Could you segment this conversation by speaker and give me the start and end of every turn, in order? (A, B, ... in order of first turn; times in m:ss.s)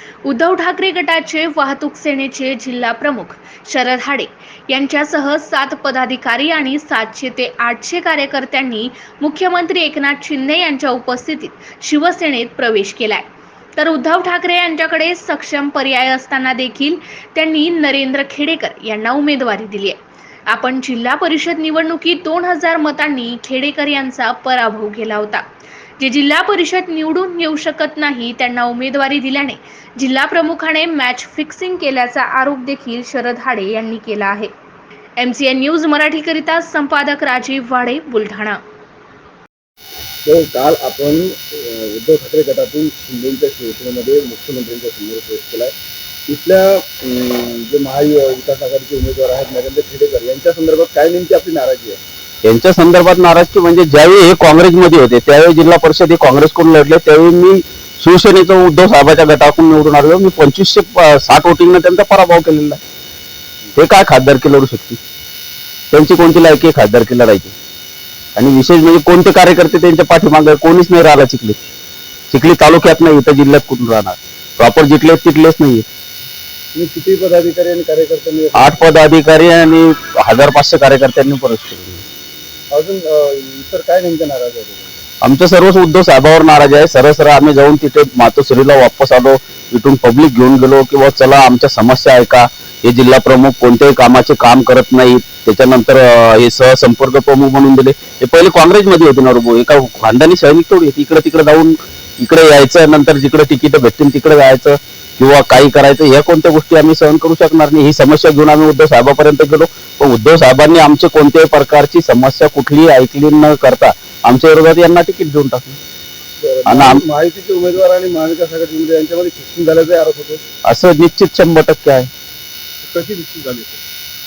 0:00.2-0:13.2 A
0:13.8-0:20.0 A
0:20.5-0:25.4 A
0:26.0-0:34.5 A
0:35.2-0:38.6 A
0:40.2-0:45.7 B
0:46.3-0:52.0 B
0:52.4-1:02.8 C
1:03.7-1:05.0 C
1:05.9-1:07.5 C
1:08.4-1:11.6 C
1:12.3-1:15.8 C
1:16.7-1:18.9 B
1:18.5-1:22.0 C
1:22.7-1:25.0 B
1:25.2-1:55.8 C
1:56.4-2:00.4 B
1:56.7-1:57.0 C
2:00.6-2:02.1 C
2:02.8-2:03.8 B